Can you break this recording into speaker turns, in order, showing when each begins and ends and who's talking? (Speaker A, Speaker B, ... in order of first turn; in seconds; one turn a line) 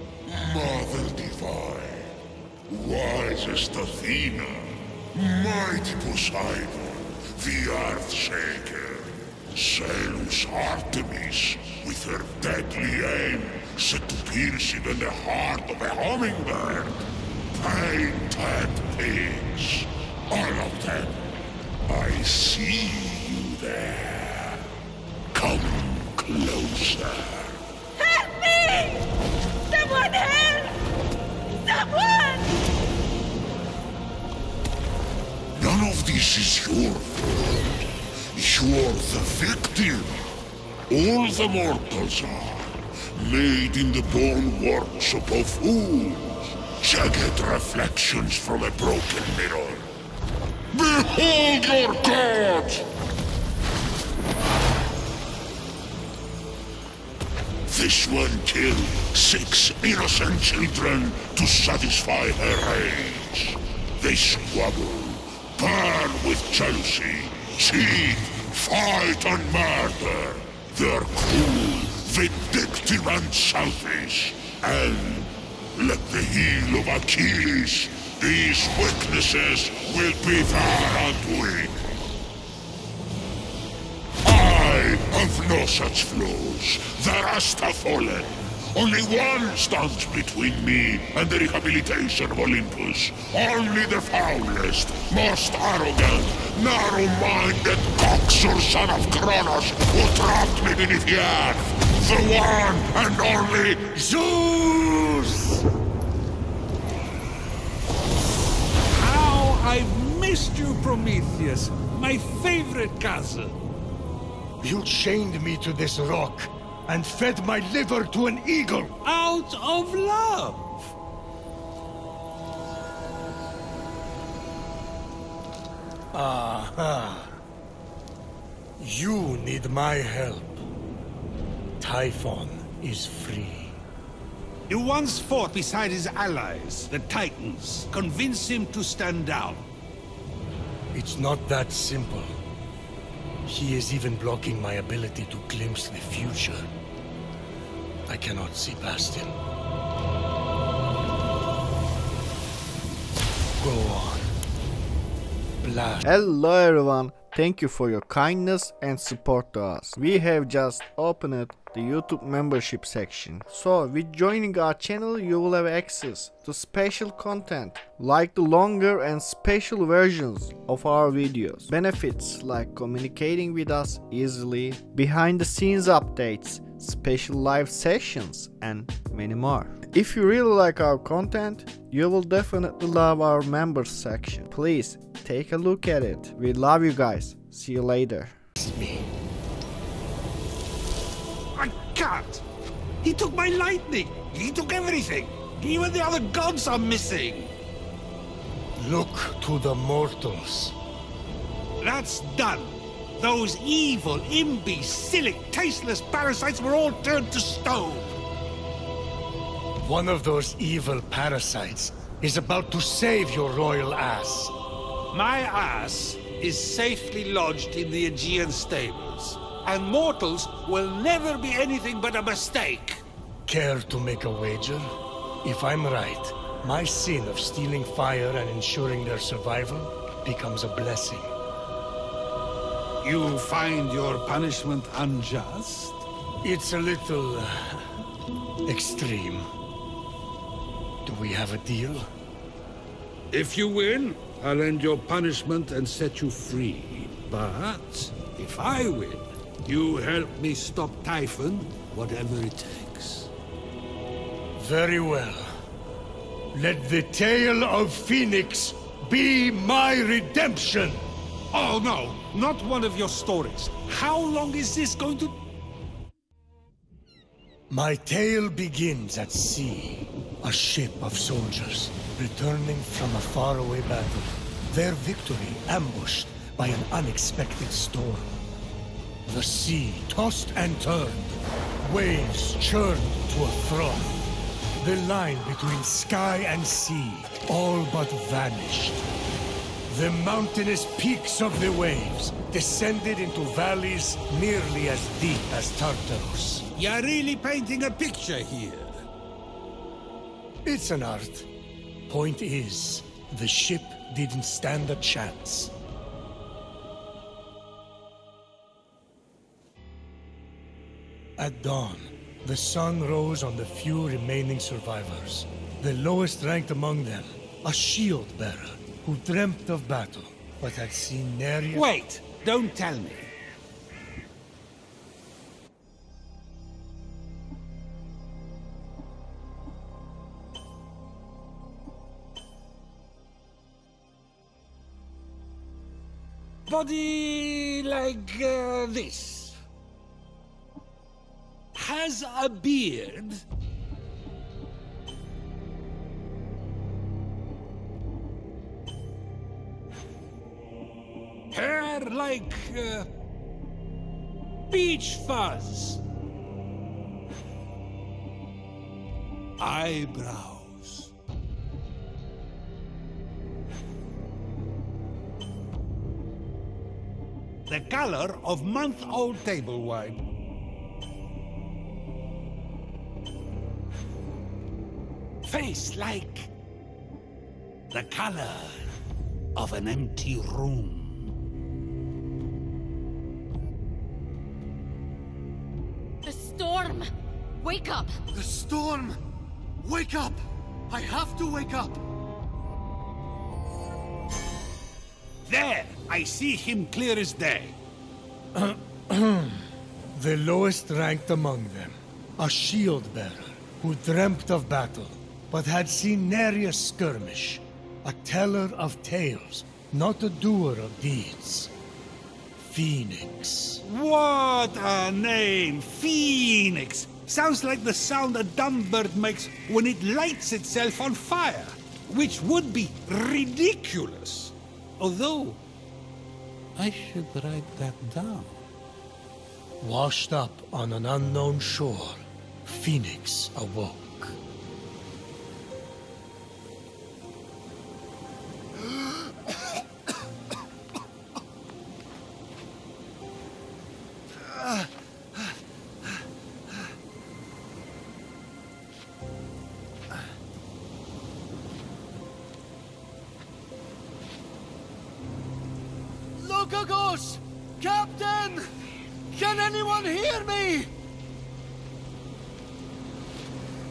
Speaker A: 0.2-2.1
Speaker A: 2.7-21.2
Speaker A: 21.9-24.6
Speaker A: 25.3-27.6
Speaker B: 28.0-29.0
Speaker B: 29.7-30.8
Speaker B: 31.6-32.5
Speaker A: 35.5-40.2
Speaker A: 40.9-49.9
Speaker A: 50.7-52.9
Speaker A: 57.7-81.8
Speaker A: 84.2-103.8
Speaker C: 103.9-105.7
Speaker D: 108.9-113.6
Speaker C: 114.6-118.9
Speaker D: 119.0-120.7
Speaker C: 126.1-127.4
Speaker C: 128.8-130.6
Speaker C: 131.8-133.8
Speaker D: 134.7-139.7
Speaker C: 140.9-142.3
Speaker C: 143.4-146.7
Speaker C: 148.1-149.3
Speaker C: 153.6-154.3
Speaker C: 155.6-156.0
Speaker E: 156.0-188.4
Speaker C: 188.6-189.1
Speaker D: 191.5-192.4
Speaker D: 193.0-197.5
Speaker C: 198.8-200.8
Speaker D: 201.8-208.2
Speaker C: 209.8-214.5
Speaker D: 215.1-223.0
Speaker C: 223.4-224.9
Speaker C: 225.4-231.3
Speaker D: 233.0-236.0
Speaker C: 236.4-237.8
Speaker C: 238.7-239.4
Speaker C: 241.0-242.1
Speaker D: 243.3-253.3
Speaker C: 254.6-255.5
Speaker C: 256.5-261.0
Speaker D: 261.5-265.4
Speaker C: 267.7-278.3
Speaker C: 279.2-284.2
Speaker C: 284.8-289.0
Speaker C: 289.9-296.7
Speaker D: 296.7-299.0
Speaker C: 300.6-301.5
Speaker C: 302.1-305.7
Speaker C: 311.4-321.9
Speaker D: 321.7-323.3
Speaker D: 336.7-339.6
Speaker D: 341.7-343.4
Speaker D: 351.5-353.1
Speaker D: 354.7-356.0
Speaker D: 359.6-361.1
Speaker D: 367.7-370.2
Speaker D: 375.4-376.5
Speaker D: 377.9-378.9
Speaker D: 379.5-381.3
Speaker B: 386.2-388.2
Speaker F: 388.3-389.2
Speaker F: 389.8-392.0
Speaker D: 395.4-397.8
Speaker C: 398.5-411.7
Speaker C: 412.6-413.8
Speaker D: 413.8-425.6
Speaker D: 426.8-428.6
Speaker C: 429.8-434.4
Speaker F: 456.4-458.7
Speaker F: 459.3-460.9